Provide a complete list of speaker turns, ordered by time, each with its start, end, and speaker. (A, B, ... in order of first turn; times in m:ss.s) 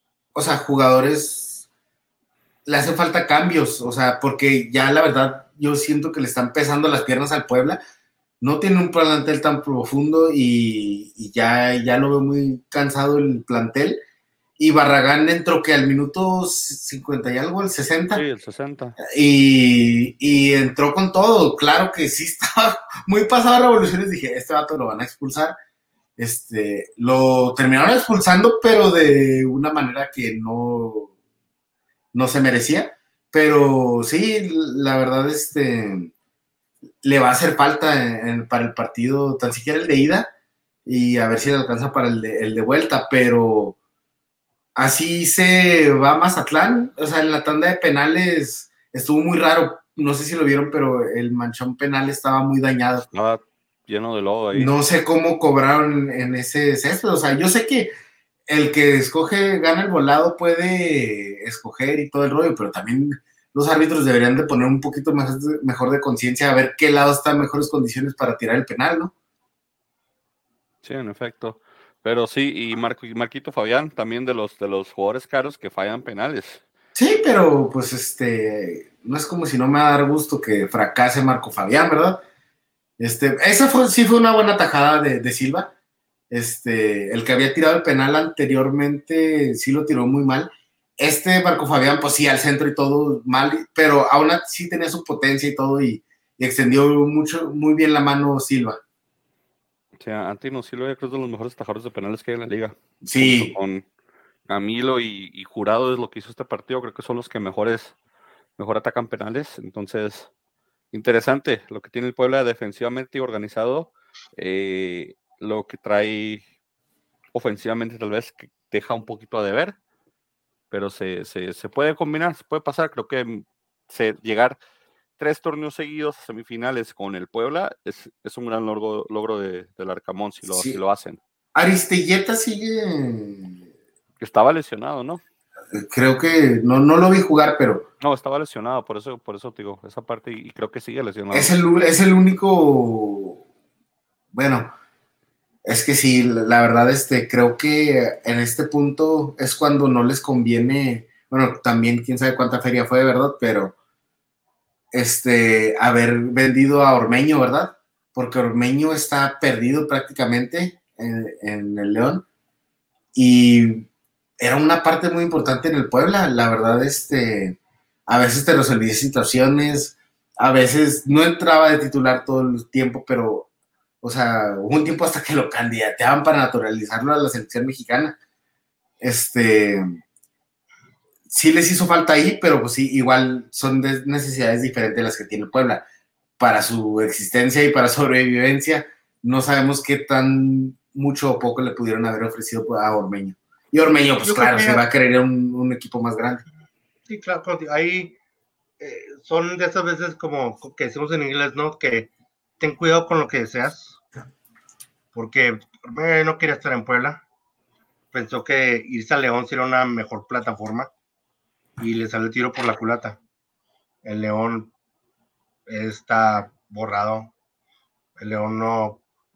0:00.3-0:01.6 A
0:02.6-0:07.8 A
0:08.4-0:14.0 A
0:14.6-0:18.2 A
0:18.1-0:19.0 B
0:19.0-0:25.5 A
0:26.2-0:31.1 A
0:32.1-0:36.1 A
0:37.0-0:40.3 A
0:40.8-0:43.8 A
0:44.8-0:53.0 A
0:53.0-0:54.7 B
0:54.5-0:57.9 A
0:58.5-1:09.1 A
1:10.8-1:16.6 B
1:17.0-1:22.2 A
1:23.0-1:25.7 A
1:26.3-1:38.8 A
1:40.0-1:43.8 B
1:43.0-1:43.5 A
1:44.5-1:47.9 B
1:48.6-1:50.3 B
1:50.9-1:56.4 B
1:57.3-1:59.8 B
2:00.7-2:04.6 B
2:05.2-2:11.2 B
2:10.4-2:10.8 A
2:11.5-2:13.6 A
2:14.2-2:15.2 B
2:15.7-2:17.8 A
2:18.0-2:21.5 B
2:21.3-2:23.4 A
2:24.3-2:24.7 A
2:25.6-2:33.7 A
2:34.9-2:42.2 A
2:43.1-2:43.9 A
2:44.4-2:47.6 A
2:48.1-2:53.5 A
2:54.0-2:58.1 A
2:59.0-2:59.8 A
3:01.3-3:05.8 A
3:06.4-3:16.4 A
3:14.2-3:14.8 C
3:17.1-3:18.2 C
3:18.8-3:24.0 C
3:25.1-3:27.2 C
3:28.1-3:30.9 C
3:31.8-3:33.2 C
3:34.0-3:34.7 C
3:35.7-3:37.3 C
3:38.2-3:39.0 C